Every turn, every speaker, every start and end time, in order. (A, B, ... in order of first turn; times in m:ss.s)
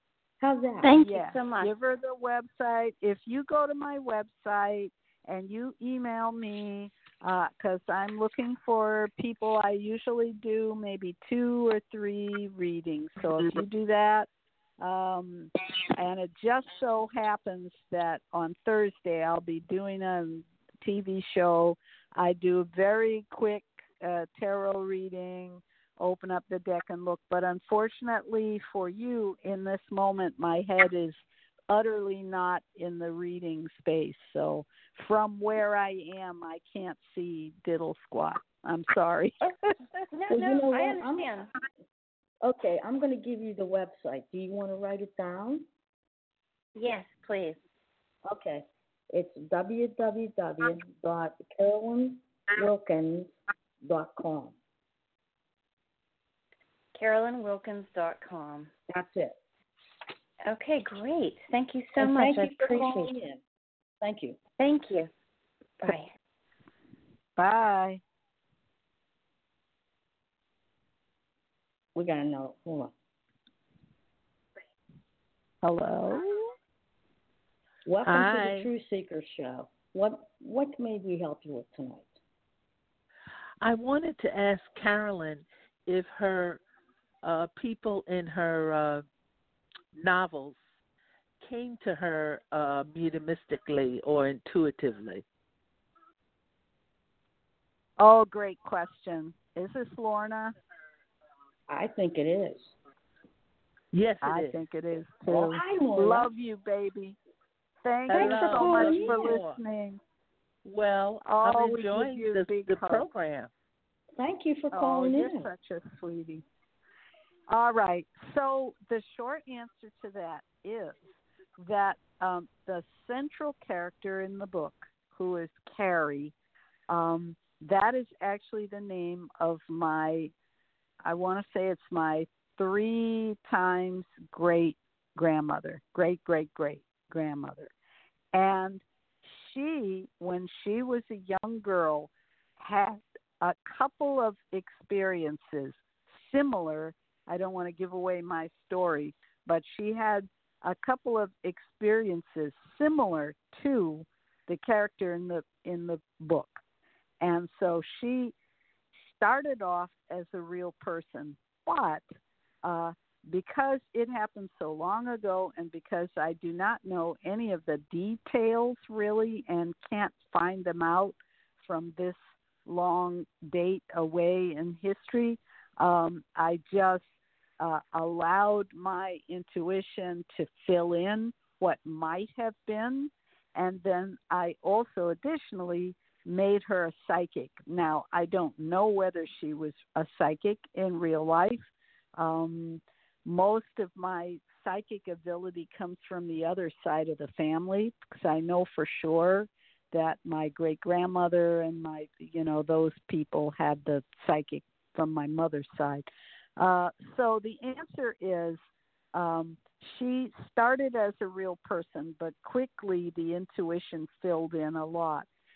0:00.4-0:01.0 A
0:00.8-0:01.7 B
0:01.0-0:31.2 C
0:31.7-0:39.7 C
0:40.1-0:41.5 B
0:40.3-0:41.3 A
0:42.4-0:45.6 A
0:46.8-0:47.6 B
0:48.2-0:54.5 A
0:56.9-0:58.7 B
0:58.9-0:59.4 A
1:00.4-1:03.1 B
1:02.0-1:03.4 A
1:04.0-1:04.4 A
1:04.6-1:05.1 B
1:05.8-1:06.1 B
1:07.4-1:08.0 C
1:11.9-1:12.9 A
1:15.6-1:16.5 C
1:17.8-1:22.1 A
1:18.0-1:18.7 D
1:23.6-1:26.6 D
1:27.2-1:29.0 D
1:29.9-1:30.6 D
1:31.4-1:35.2 D
1:38.0-1:40.5 C
1:41.7-1:42.8 A
1:43.9-1:44.6 D
1:44.2-1:47.2 C
1:45.3-1:46.3 A
1:47.8-1:50.0 C
1:48.1-1:49.6 D
1:48.1-1:49.4 A
1:50.6-1:53.5 D
1:51.2-1:53.1 C
1:54.2-1:55.5 A
1:54.7-1:56.4 C
1:57.5-2:01.0 C
2:01.6-2:06.3 C
2:06.9-2:10.3 C
2:11.0-2:17.7 C
2:18.3-2:36.6 C
2:37.2-2:38.3 C
2:39.0-2:42.0 C
2:42.6-2:57.0 C
2:57.6-3:26.1 C
3:26.6-3:28.6 C
3:29.1-3:35.3 C